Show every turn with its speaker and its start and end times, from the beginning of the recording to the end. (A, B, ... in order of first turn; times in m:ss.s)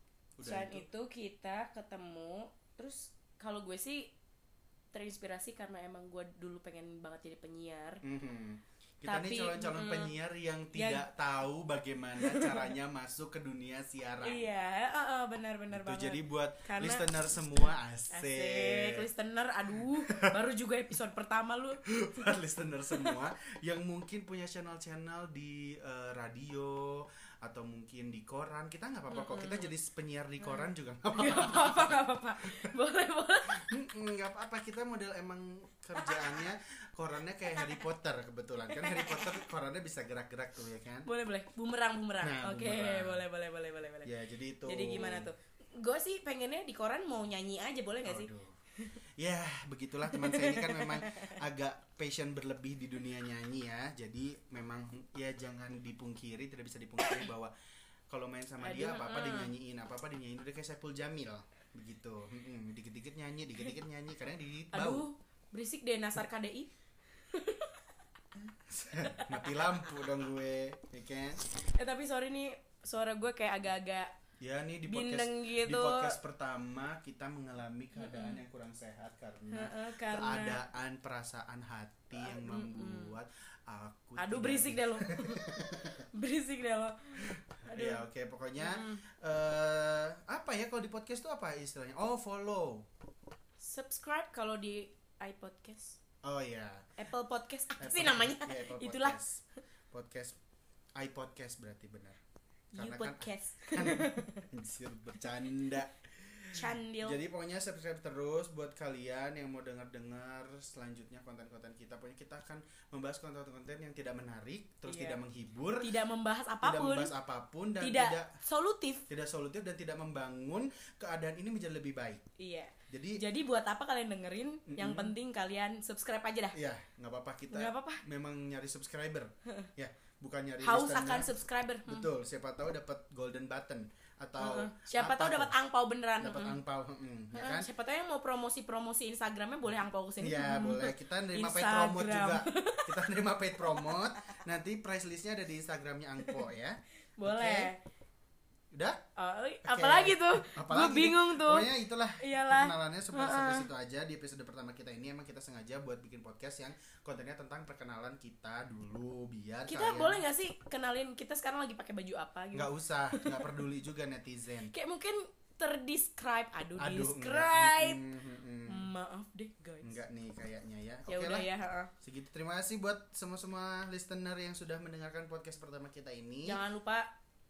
0:00.4-0:00.9 A
0:00.4-0:04.1 B
0:04.9-0:08.0 B
0:08.0-0:14.5 A
0:09.1-0:10.2 B
0:10.7-0:11.1 B
0:12.2-0:12.7 B
0:14.2-0:22.4 B
0:15.7-0:19.1 A
0:21.9-0:32.7 A
0:22.9-0:23.2 B
0:29.1-0:29.7 B
0:30.4-0:33.7 B
0:33.6-0:41.1 A
0:36.0-0:36.4 B
0:37.6-0:37.8 B
0:38.7-0:39.4 B
0:41.0-0:44.1 B
0:42.2-0:43.2 A
0:44.0-0:45.3 A
0:44.6-0:49.0 B
0:48.0-0:48.6 A
0:49.2-0:57.5 A
0:50.1-0:51.4 B
0:58.1-1:05.1 A
0:58.6-0:59.5 B
1:04.7-1:06.7 B
1:07.2-1:07.9 B
1:08.4-1:11.4 A
1:09.0-1:10.0 B
1:11.7-1:14.1 B
1:14.4-1:26.0 A
1:14.9-1:16.2 B
1:18.0-1:18.4 B
1:19.5-1:20.6 B
1:22.1-1:23.2 B
1:24.2-1:28.0 B
1:27.2-1:32.9 A
1:28.6-1:29.0 B
1:33.6-1:36.0 B
1:36.2-1:36.9 A
1:37.0-1:39.2 B
1:37.8-1:40.4 A
1:41.0-1:42.2 A
1:42.7-1:44.5 B
1:42.8-1:55.9 A
1:46.5-1:47.2 B
1:54.8-1:55.2 B
1:55.8-1:57.1 B
1:56.6-1:58.4 A
1:57.8-1:59.1 B
1:59.1-2:02.2 A
2:02.4-2:06.6 B
2:02.9-2:03.2 A
2:04.7-2:05.2 A
2:06.5-2:11.4 A
2:07.5-2:08.0 B
2:10.6-2:12.1 B
2:11.9-2:15.6 A
2:14.4-2:16.6 B
2:16.2-2:17.7 A
2:17.3-2:23.0 B
2:20.2-2:27.7 A
2:23.6-2:24.4 B
2:26.2-2:26.5 B
2:27.2-2:27.8 B
2:28.7-2:29.0 A
2:29.2-2:33.7 B
2:29.6-2:40.2 A
2:39.7-2:43.6 B
2:42.5-2:44.7 A
2:44.7-2:48.1 B
2:46.8-2:48.9 A
2:48.7-2:50.0 B
2:49.8-2:56.6 A
2:51.1-2:51.9 B
2:56.4-2:57.1 B